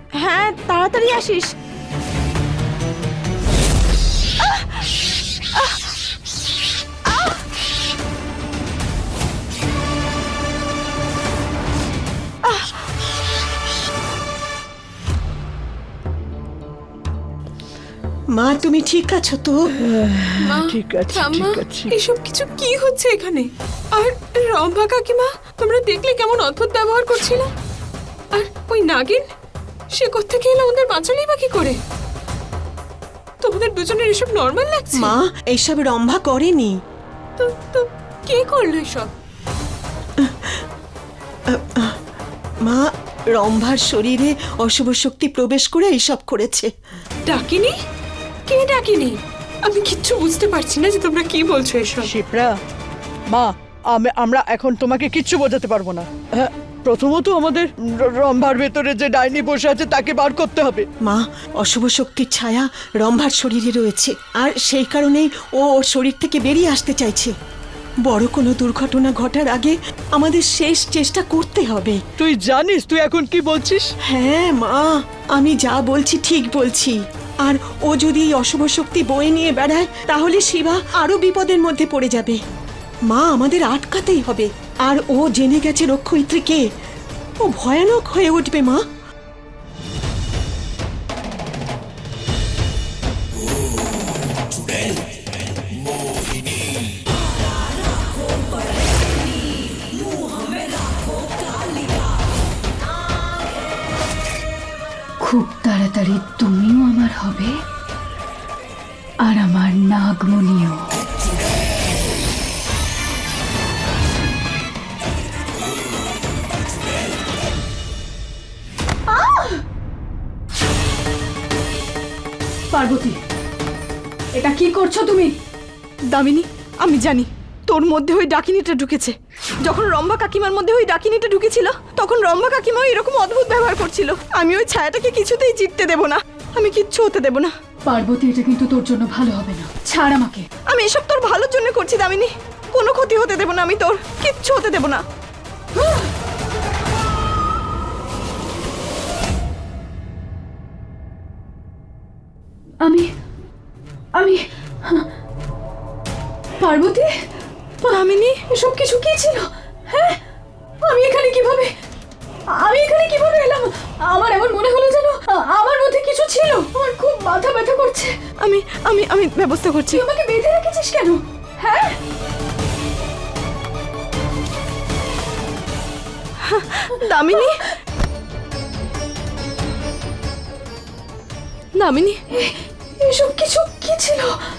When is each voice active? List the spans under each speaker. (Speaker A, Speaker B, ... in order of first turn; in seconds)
Speaker A: 0.2-1.5, 4.4-4.7, 7.1-7.4, 12.4-12.8, 126.1-137.5, 140.7-145.0, 157.9-158.4, 168.4-170.0, 176.4-177.6, 181.8-182.2
Speaker B: 18.3-19.6, 34.9-36.8, 40.2-40.6, 41.5-42.0, 42.6-46.7, 61.0-67.3, 68.1-72.0, 74.1-82.4, 83.1-86.6, 87.4-88.8
Speaker C: 19.8-21.9, 52.1-52.5, 53.3-60.9, 72.2-73.9
Speaker D: 20.4-27.5, 28.3-29.3, 29.9-31.8, 33.4-35.2, 37.4-39.1, 47.3-47.8, 48.5-52.1
Speaker E: 105.2-107.6, 109.2-110.9, 119.1-119.6, 122.7-123.2, 124.4-125.3, 137.9-140.5, 145.8-146.1, 152.8-153.1, 154.2-155.1, 156.6-157.1, 157.8-160.2, 160.8-161.7, 162.5-168.2, 169.9-172.0, 182.3-184.4